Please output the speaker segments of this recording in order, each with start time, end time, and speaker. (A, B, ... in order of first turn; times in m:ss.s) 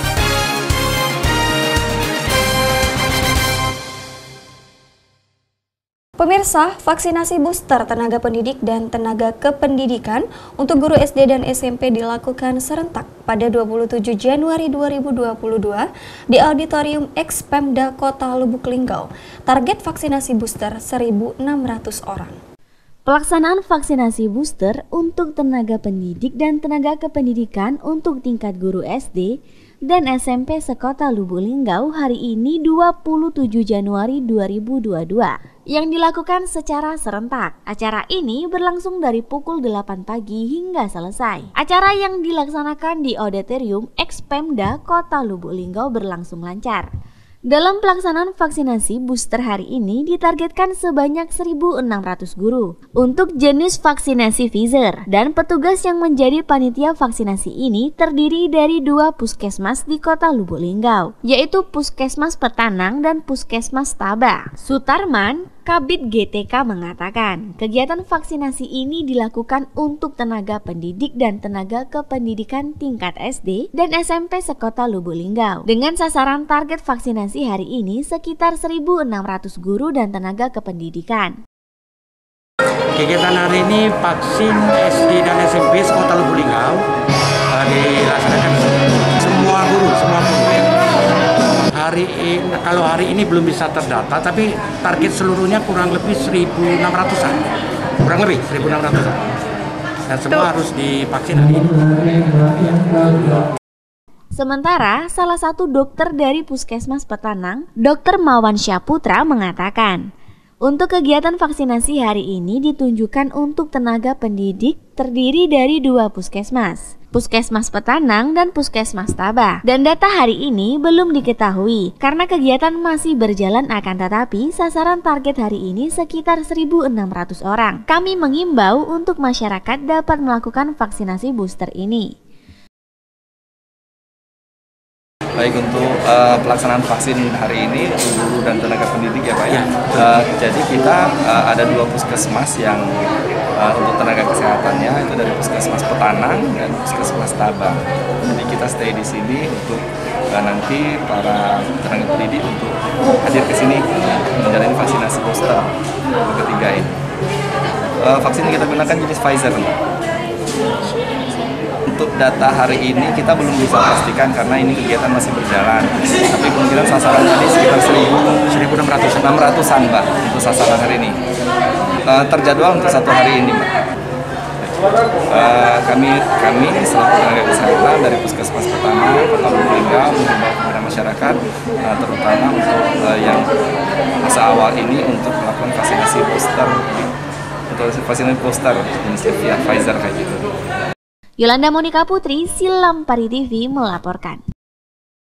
0:06.2-0:22.4 A
0:23.1-0:29.4 B
0:29.9-0:46.9 B
0:47.5-1:21.4 B
1:23.0-1:26.8 C
1:27.5-1:28.6 C
1:29.2-1:30.7 C
1:31.8-1:37.4 C
1:38.0-1:39.2 C
1:40.1-1:42.8 C
1:44.4-1:50.1 B
1:50.6-2:12.1 B
2:15.4-2:35.7 D
2:36.2-2:37.0 D
2:38.0-2:39.7 D
2:41.9-2:48.3 D
2:48.6-2:49.2 C
2:49.0-2:51.2 D
2:52.1-2:53.7 D
2:55.3-3:03.5 D
3:04.2-3:07.1 D
3:07.7-3:10.4 D
3:11.4-3:14.4 B